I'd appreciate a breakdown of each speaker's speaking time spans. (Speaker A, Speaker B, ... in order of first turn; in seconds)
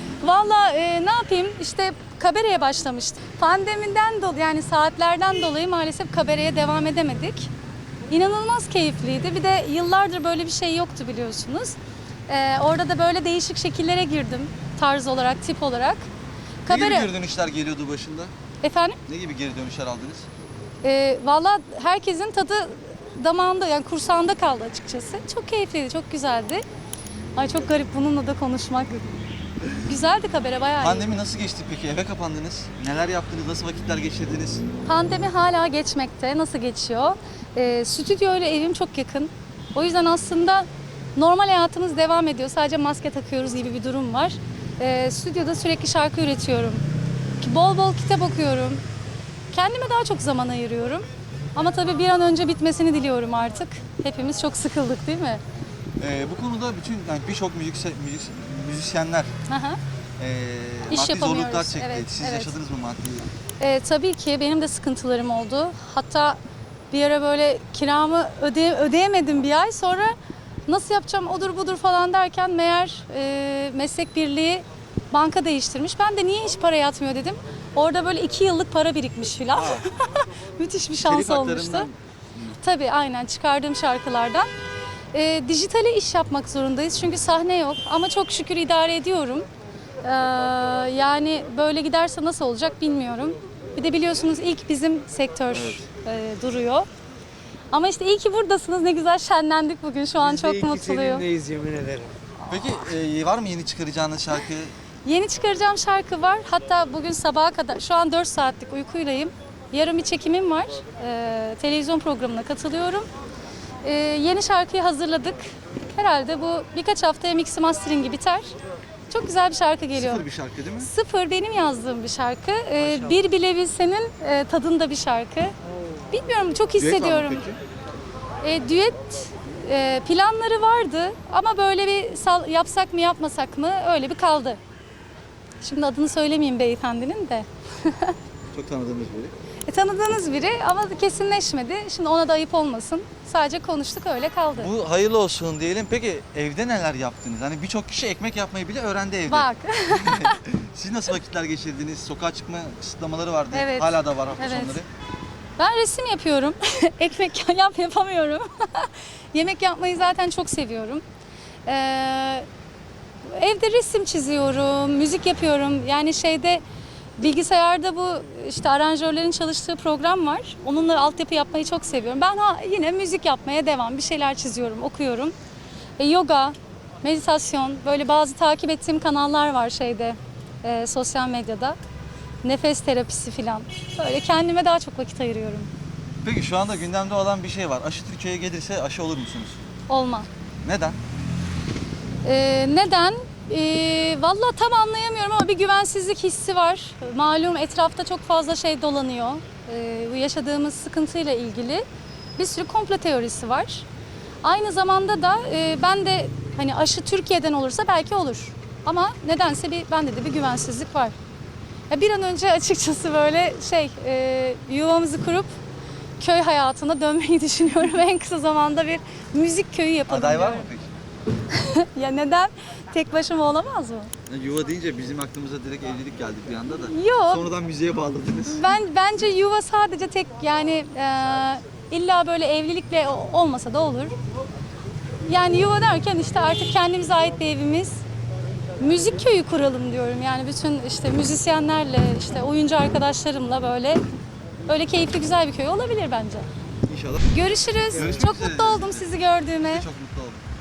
Speaker A: 0.2-7.5, 8.1-16.1, 16.6-17.1, 18.6-19.0, 20.8-26.6, 27.4-29.1, 29.7-31.1, 34.8-46.8, 47.4-48.8, 49.5-55.4, 59.5-59.8, 60.9-62.5, 63.6-66.4, 66.9-70.1, 70.7-81.9, 82.6-84.5, 85.1-89.5, 90.0-96.9, 97.7-101.2, 105.0-113.0, 113.8-118.5, 119.1-120.2, 120.8-125.5, 126.1-127.4, 128.4-134.6, 135.6-138.2, 139.7-144.7, 149.3-150.4, 153.5-154.8, 155.6-161.0, 161.7-162.4, 163.3-166.6, 167.2-175.3, 176.0-181.8, 182.4-185.7, 189.9-190.3, 192.2-201.8, 202.4-203.9, 204.4-211.1, 211.9-215.5, 216.2-220.7, 221.5-224.1, 226.9-227.5, 228.5-234.1, 235.2-238.0, 238.8-244.0, 244.7-246.5, 247.3-249.8
Speaker B: 16.7-18.3, 19.1-20.3, 30.8-34.6, 56.0-59.3, 60.2-63.3, 79.5-79.8, 81.0-82.6, 95.5-95.8, 102.5-104.7, 119.9-120.9, 126.8-127.6, 138.5-139.3, 144.6-154.9, 186.2-189.6, 190.6-191.0, 220.1-220.9, 224.3-228.8, 246.9-250.4
Speaker C: 100.2-102.1, 247.9-248.3